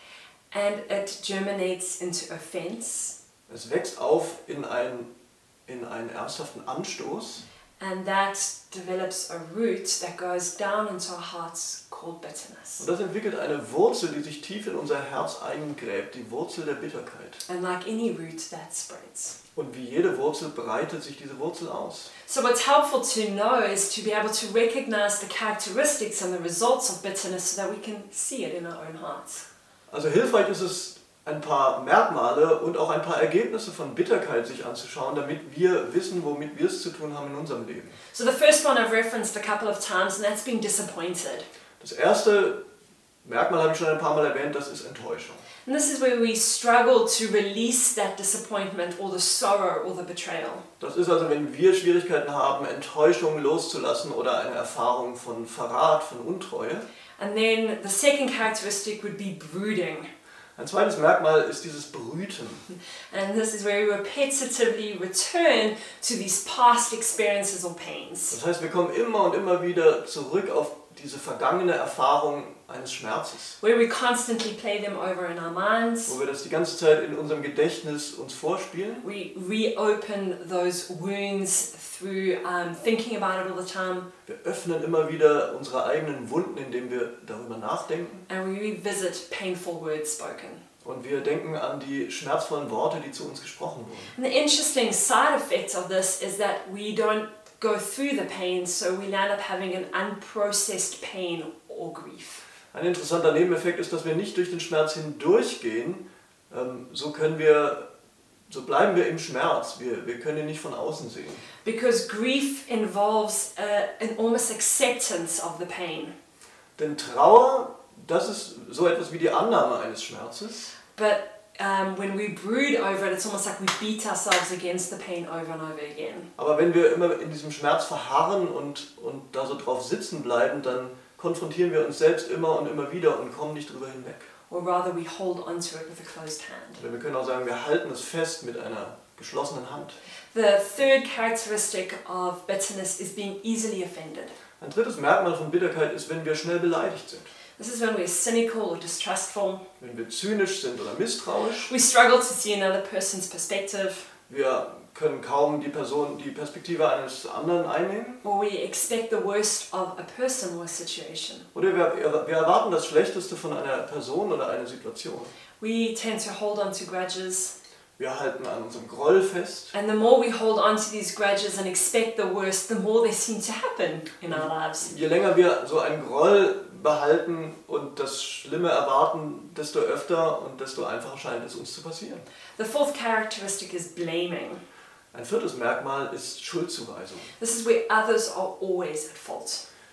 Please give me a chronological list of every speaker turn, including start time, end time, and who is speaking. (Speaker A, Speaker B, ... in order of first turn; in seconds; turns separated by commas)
Speaker A: 0.5-3.1, Speaker B: 3.5-5.1, Speaker B: 5.7-7.4, Speaker A: 7.8-12.9, Speaker B: 12.8-17.4, Speaker A: 17.4-19.4, Speaker B: 19.6-22.1, Speaker A: 22.3-29.4, Speaker B: 29.9-38.0, Speaker A: 38.1-41.5, Speaker B: 41.8-42.6, Speaker B: 43.2-45.4, Speaker A: 45.6-50.6, Speaker B: 50.8-56.9, Speaker A: 57.2-60.1, Speaker B: 60.5-62.6, Speaker A: 63.1-68.4, Speaker B: 68.3-73.6, Speaker A: 73.6-76.2, Speaker B: 76.1-79.0, Speaker A: 79.0-84.1, Speaker B: 84.2-88.2, Speaker A: 88.3-90.6, Speaker B: 90.8-94.1, Speaker A: 94.1-102.4, Speaker B: 102.7-107.8, Speaker B: 108.5-111.4, Speaker A: 111.6-116.1, Speaker B: 116.8-120.7, Speaker A: 120.9-126.3, Speaker B: 126.4-134.3, Speaker A: 134.5-136.8, Speaker B: 136.8-140.0, Speaker A: 140.3-144.3, Speaker B: 144.6-147.3, Speaker A: 147.6-149.6, Speaker B: 149.8-151.7, Speaker A: 151.6-154.1, Speaker B: 154.3-158.2, Speaker A: 158.2-161.5, Speaker B: 161.5-165.3, Speaker A: 165.6-167.5, Speaker B: 168.0-169.7, Speaker A: 169.7-174.9, Speaker B: 174.3-182.2, Speaker A: 182.6-184.6, Speaker B: 185.1-187.3, Speaker A: 187.4-189.6